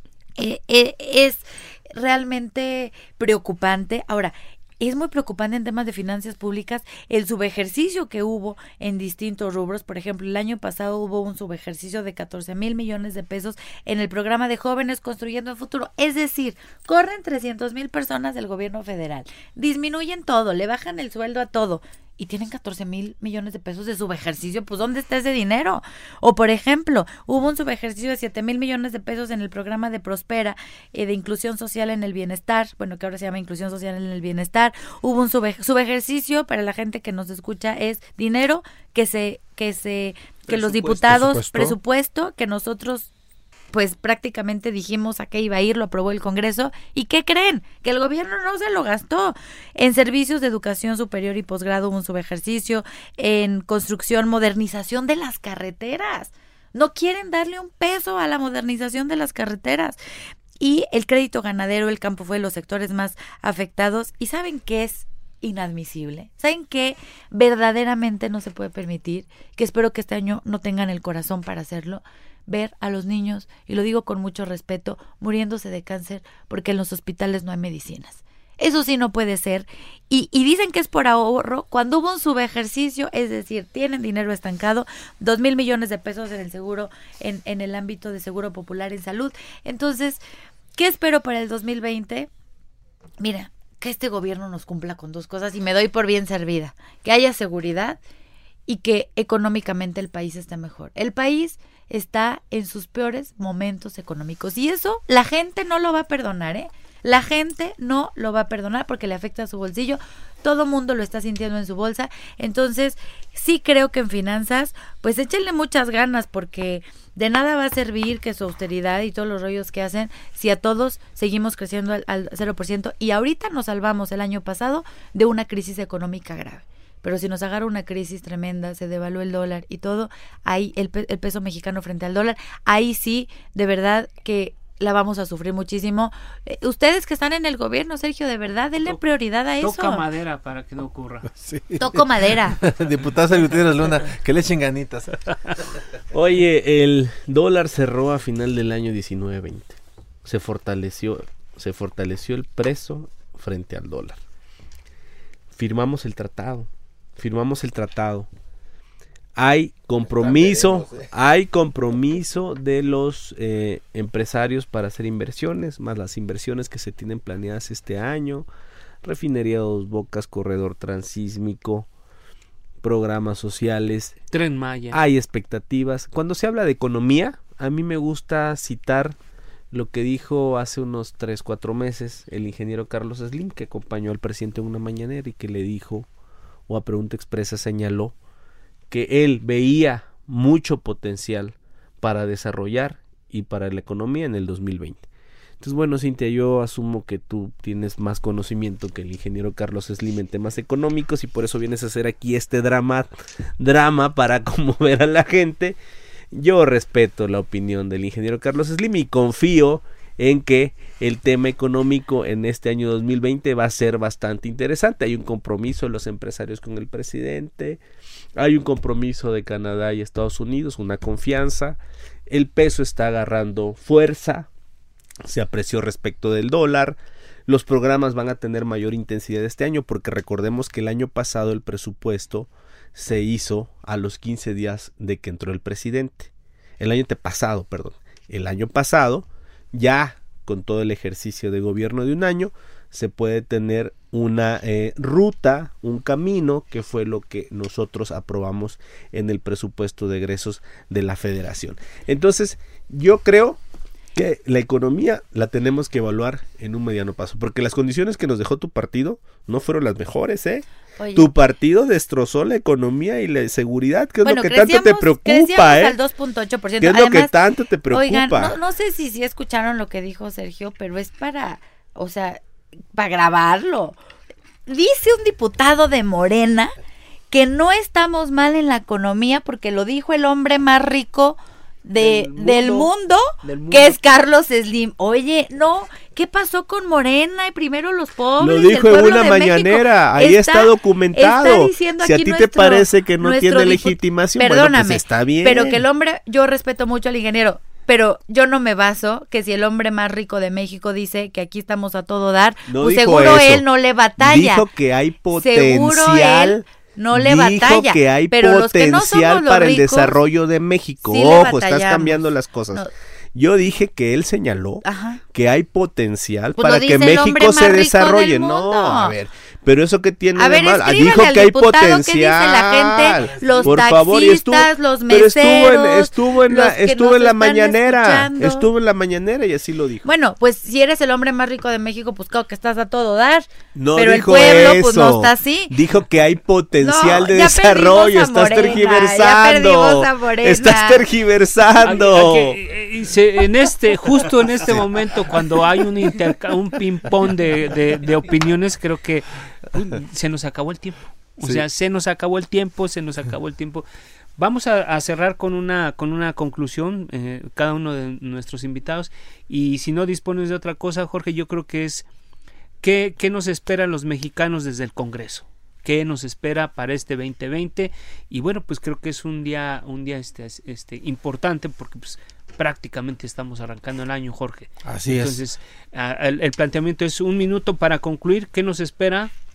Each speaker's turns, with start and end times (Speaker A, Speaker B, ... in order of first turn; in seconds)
Speaker A: 0.4-43.1, 43.7-60.0, 60.6-90.2, 90.8-92.3, 93.2-98.0, 98.7-140.1, 141.8-142.6, 261.0-261.3, 264.2-267.3, 267.9-272.4, 272.9-274.0, 274.7-276.7, 277.3-304.6, 305.3-310.2, 311.1-312.9, 314.8-315.2, 316.6-319.1, 320.4-328.7, 330.1-335.8, 336.8-341.0
Speaker B: 40.5-41.3, 139.6-141.4, 174.3-175.0, 283.4-283.8, 341.8-353.9, 354.4-362.1, 362.8-379.3
Speaker C: 41.1-41.8, 141.4-145.2, 160.1-161.1, 374.9-375.4
Speaker D: 146.1-154.2, 155.5-158.3, 159.4-168.5, 169.0-171.9, 172.8-174.2, 174.9-179.2, 179.7-186.1, 186.7-188.1, 188.9-195.0, 195.6-205.8, 206.3-217.8, 218.4-221.8, 222.3-224.5, 225.2-253.6, 254.1-266.0, 266.8-268.6, 282.0-282.8, 288.4-295.8, 302.7-303.6, 304.2-312.8, 313.4-330.1, 333.7-342.6